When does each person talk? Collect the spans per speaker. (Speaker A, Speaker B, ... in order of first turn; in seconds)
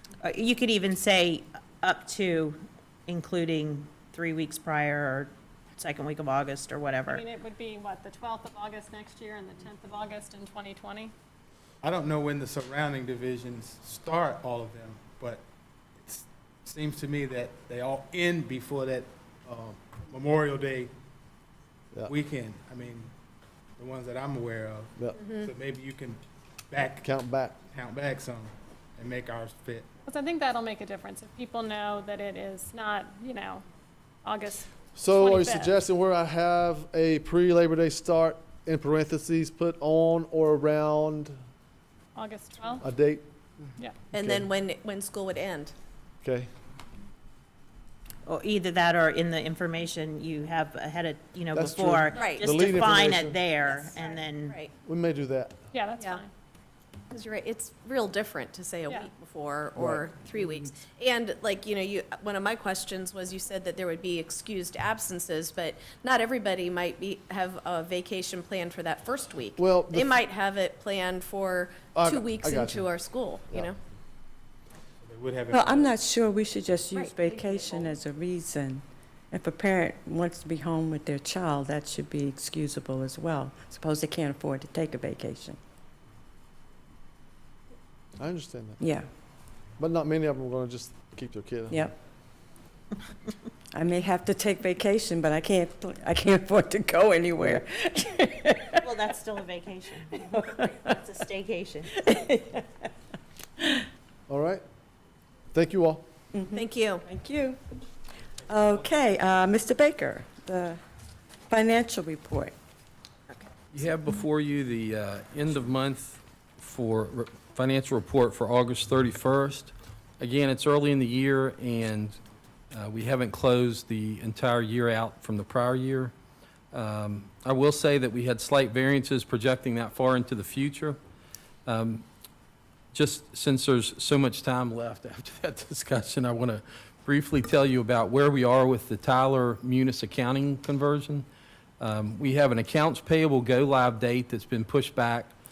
Speaker A: 0.2-7.2, 48.2-54.5, 98.8-101.9
Speaker B: 7.1-11.1, 30.1-33.6, 34.2-35.7, 42.1-42.8, 55.7-56.3
Speaker C: 11.8-15.4, 16.0-20.9, 22.1-23.1, 23.8-27.1, 27.6-29.9, 75.0-75.9
Speaker D: 25.2-25.5, 44.1-45.7, 52.1-52.5, 53.6-54.7, 57.1-73.8, 76.9-77.9, 106.5-107.0
Speaker E: 26.9-27.6, 34.9-41.4, 42.8-43.3, 44.1-44.5, 46.2-46.5, 51.5-53.4, 54.8-55.7, 59.8-60.1, 69.6-70.2, 71.9-73.0, 88.2-88.8, 89.8-91.9, 104.3-104.6, 105.5-106.0
Speaker F: 75.5-85.6, 88.8-89.0, 91.7-91.9, 93.7-98.8, 102.0-102.5, 106.3-107.6, 108.5-110.8, 111.5-112.5
Speaker G: 113.7-122.2, 122.7-126.1, 126.7-131.0, 131.7-132.0, 132.9-141.3, 141.8-145.3